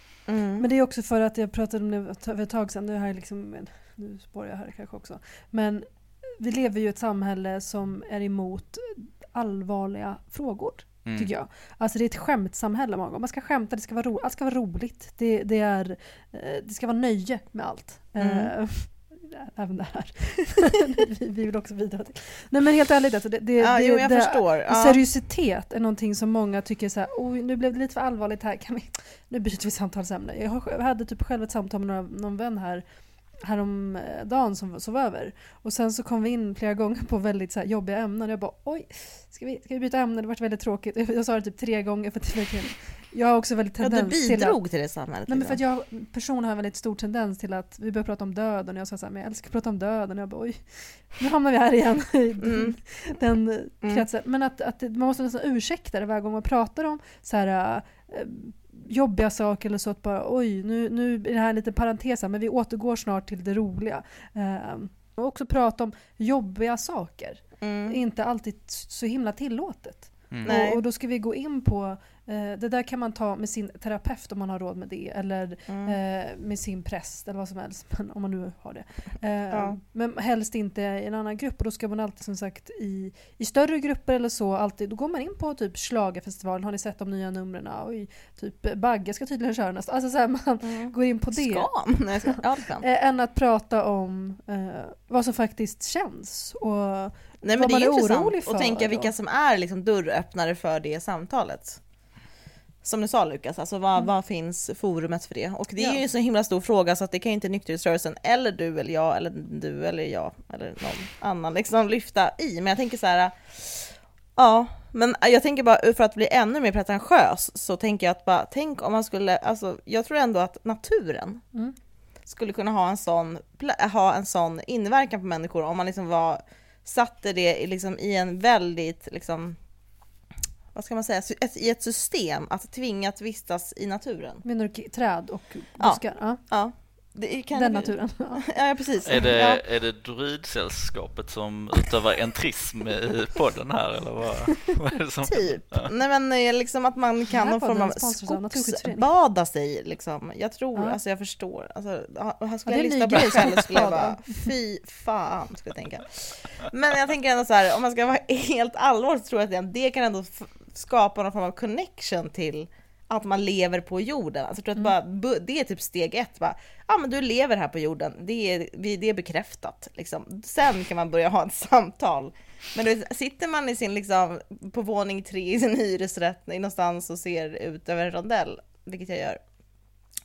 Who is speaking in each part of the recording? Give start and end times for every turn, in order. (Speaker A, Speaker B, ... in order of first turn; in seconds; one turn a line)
Speaker A: 0.3-0.6
Speaker B: 0.6-32.8
Speaker C: 11.0-11.3
Speaker A: 18.2-18.5
Speaker A: 23.6-25.0
Speaker B: 33.4-44.6
Speaker A: 43.8-45.6
Speaker B: 45.3-91.7
Speaker A: 52.4-52.8
Speaker A: 67.6-68.0
Speaker C: 70.3-70.6
Speaker A: 70.4-70.8
Speaker A: 75.7-76.0
Speaker A: 79.5-79.8
Speaker A: 90.6-92.8
Speaker B: 92.2-99.1
Speaker A: 97.4-101.8
Speaker A: 102.8-121.4
Speaker A: 122.2-129.6
Speaker A: 130.7-134.4
Speaker B: 134.4-136.4
Speaker A: 135.8-139.6
Speaker B: 137.5-138.4
Speaker C: 139.0-145.9
Speaker A: 145.3-179.4
Speaker B: 147.3-149.1
Speaker B: 152.7-154.5